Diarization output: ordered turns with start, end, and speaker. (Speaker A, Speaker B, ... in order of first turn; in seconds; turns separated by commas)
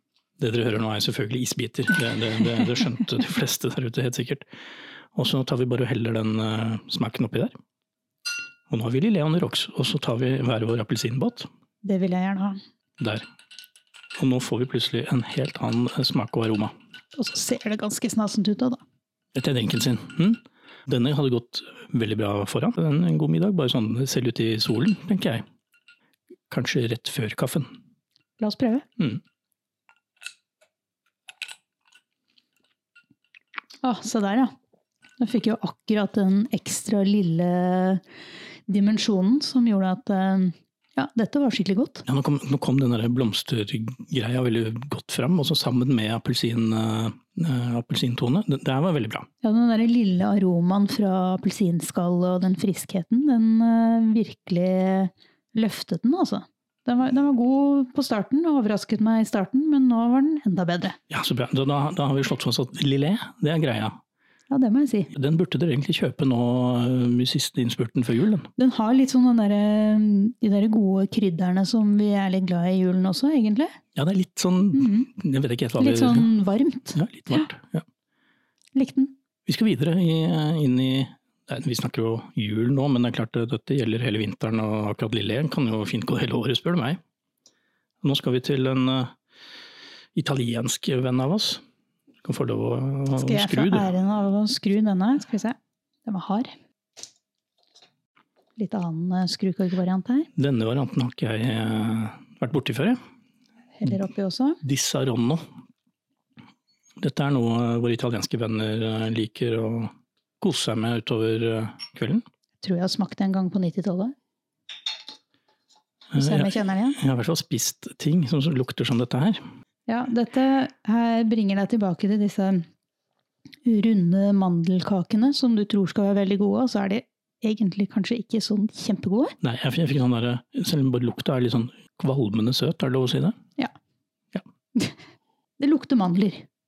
Speaker A: 0.4-4.4, Speaker A: 5.1-7.5, Speaker A: 8.7-11.5, Speaker B: 11.8-12.6, Speaker A: 13.0-13.2, Speaker A: 14.2-16.7, Speaker B: 17.2-18.8, Speaker A: 19.3-25.4, Speaker A: 26.5-27.7, Speaker B: 28.4-28.9, Speaker B: 33.8-34.5, Speaker B: 35.2-38.0, Speaker B: 38.7-42.0, Speaker A: 42.1-49.3, Speaker B: 49.4-61.0, Speaker A: 61.1-64.0, Speaker B: 64.5-65.1, Speaker A: 65.1-68.5, Speaker B: 68.6-73.8, Speaker A: 73.9-76.3, Speaker B: 74.7-75.1, Speaker B: 75.8-77.5, Speaker A: 76.9-77.8, Speaker B: 78.8-79.1, Speaker A: 79.5-87.0, Speaker A: 88.0-89.1, Speaker A: 90.1-91.6, Speaker A: 92.2-93.9, Speaker B: 93.2-96.5, Speaker B: 98.6-100.3, Speaker A: 100.3-103.0, Speaker B: 103.8-104.6, Speaker A: 104.6-105.4, Speaker A: 107.0-112.2, Speaker B: 112.6-114.1, Speaker A: 116.1-119.4, Speaker B: 116.1-117.0, Speaker B: 119.9-122.7, Speaker B: 123.6-129.3, Speaker A: 129.4-133.3, Speaker B: 135.6-136.4